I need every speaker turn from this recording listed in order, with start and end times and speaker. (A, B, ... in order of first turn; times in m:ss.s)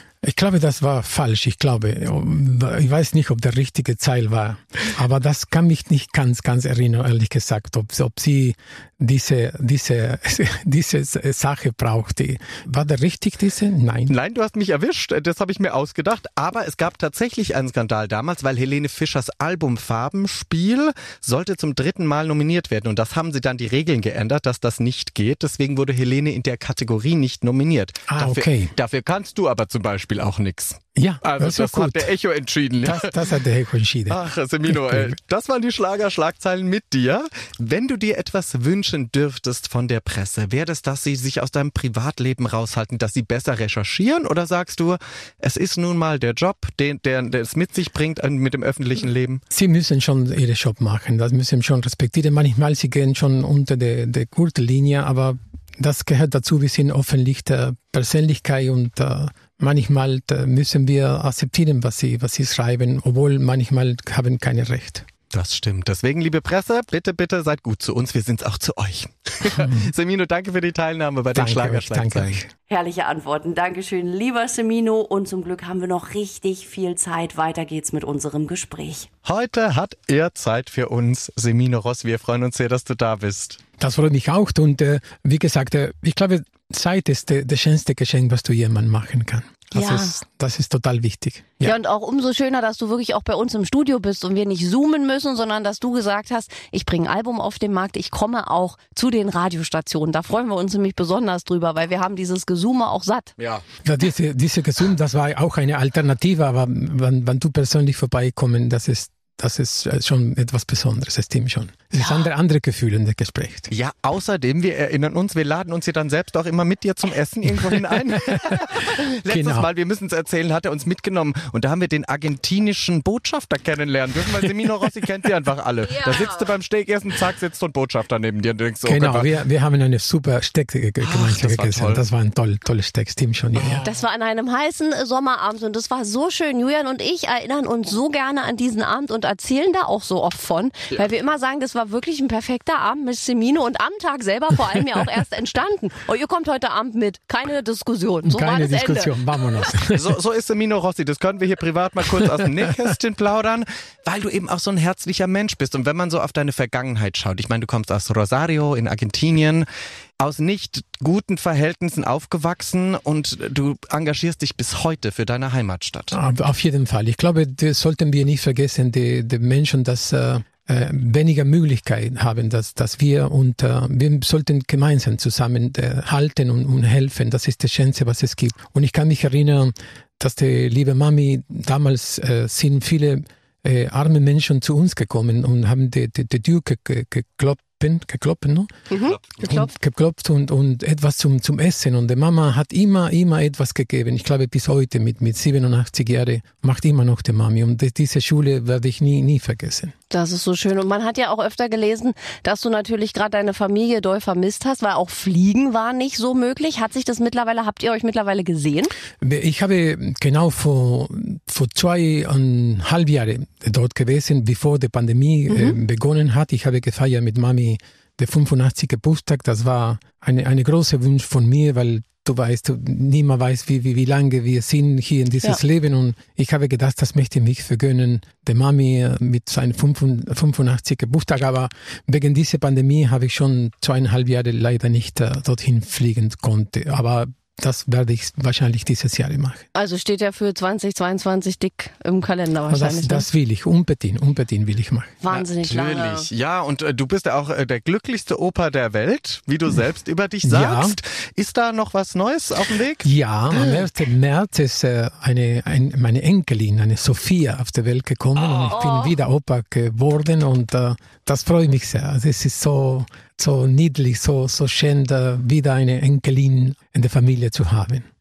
0:00.2-0:14.2 A
0:14.1-0:33.1 B
0:28.1-0:28.7 A
0:31.0-0:32.1 A
0:32.8-0:35.2 A
0:34.1-0:49.4 B
0:49.5-1:05.1 A
1:05.3-1:12.4 B
1:11.3-1:12.5 A
1:12.7-1:19.1 C
1:19.2-1:23.6 B
1:23.8-1:31.8 A
1:29.7-1:30.2 C
1:31.6-1:43.3 C
1:43.4-1:43.6 B
1:43.8-1:53.7 A
1:53.7-2:09.3 B
1:57.7-1:59.7 A
2:05.9-2:06.4 C
2:08.9-2:13.8 A
2:11.0-2:12.0 B
2:13.6-2:13.9 B
2:13.8-2:29.1 C
2:28.2-2:30.2 A
2:29.9-2:39.7 B
2:40.2-2:46.2 B
2:46.1-3:08.7 A
3:08.9-3:09.7 C
3:09.4-3:19.9 A
3:20.1-3:28.9 C
3:29.2-3:59.6 A
3:35.5-3:35.8 C
3:59.8-4:03.2 C
4:02.7-4:05.2 A
4:05.2-4:06.3 C
4:05.3-4:13.1 B
4:10.4-4:11.0 A
4:13.0-4:28.1 A
4:18.6-4:19.2 C